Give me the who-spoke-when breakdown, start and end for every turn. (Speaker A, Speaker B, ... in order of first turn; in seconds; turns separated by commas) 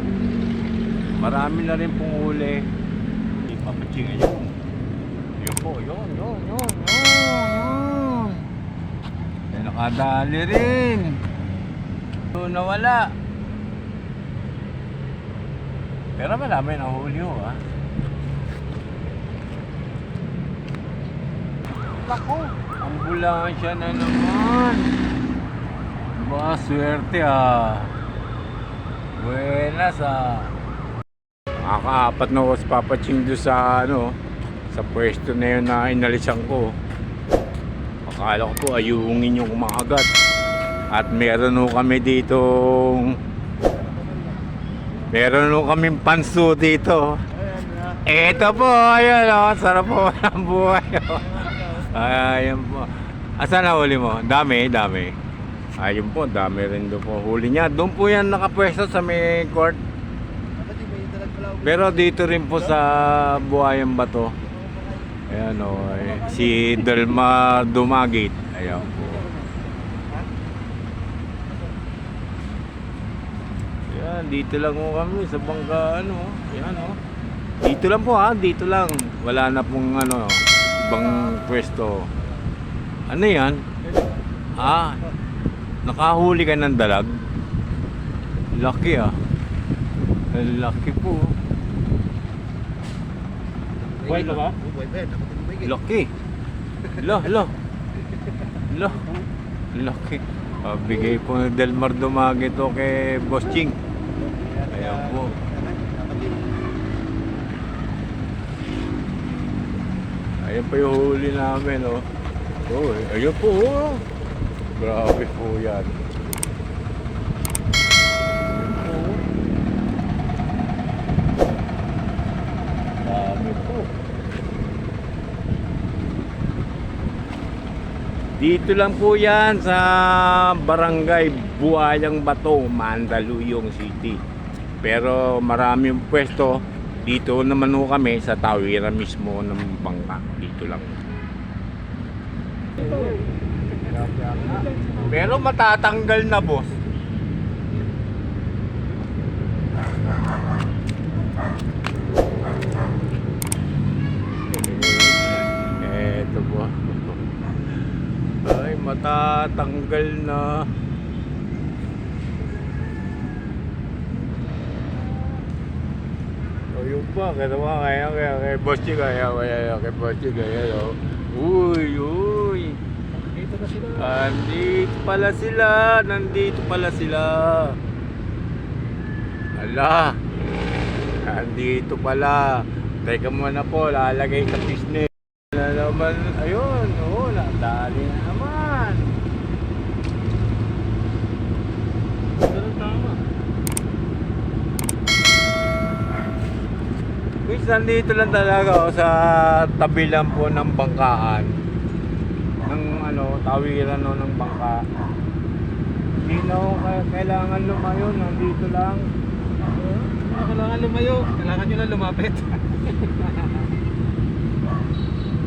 Speaker A: 1.2-2.7, Speaker A: 3.4-4.5, Speaker A: 5.4-8.5, Speaker A: 9.5-11.2, Speaker A: 12.3-13.1, Speaker A: 16.2-17.6, Speaker A: 22.0-24.9, Speaker A: 26.1-27.9, Speaker A: 29.2-30.5, Speaker A: 31.6-34.1, Speaker A: 34.7-36.7, Speaker A: 38.1-40.1, Speaker A: 40.9-43.2, Speaker A: 45.1-47.2, Speaker A: 47.9-55.1, Speaker A: 55.8-59.8, Speaker A: 61.5-64.3, Speaker A: 65.3-69.3, Speaker A: 73.9-77.0, Speaker A: 77.6-82.1, Speaker A: 83.1-83.6, Speaker A: 84.5-85.1, Speaker A: 85.9-87.1, Speaker A: 88.6-89.2, Speaker A: 90.3-91.3, Speaker A: 94.0-94.5, Speaker B: 94.2-94.5, Speaker A: 95.5-96.1, Speaker A: 96.9-97.5, Speaker A: 98.7-99.1, Speaker A: 99.7-103.8, Speaker A: 104.6-105.4, Speaker A: 110.4-112.0, Speaker A: 112.7-114.0, Speaker A: 114.8-116.0, Speaker A: 118.7-119.2, Speaker A: 123.0-123.9, Speaker A: 128.4-134.2, Speaker A: 134.8-141.0, Speaker A: 142.8-143.1, Speaker B: 142.8-143.1, Speaker A: 143.8-146.7, Speaker B: 144.8-145.1, Speaker A: 154.5-157.2, Speaker A: 158.4-160.7, Speaker A: 166.7-172.8, Speaker B: 173.2-173.9, Speaker A: 173.9-177.8, Speaker A: 179.6-180.2, Speaker A: 181.1-189.1, Speaker A: 192.4-193.2, Speaker A: 197.4-201.6, Speaker A: 202.7-204.8, Speaker A: 206.2-209.1, Speaker B: 210.0-210.7, Speaker A: 210.2-213.6, Speaker B: 211.5-212.2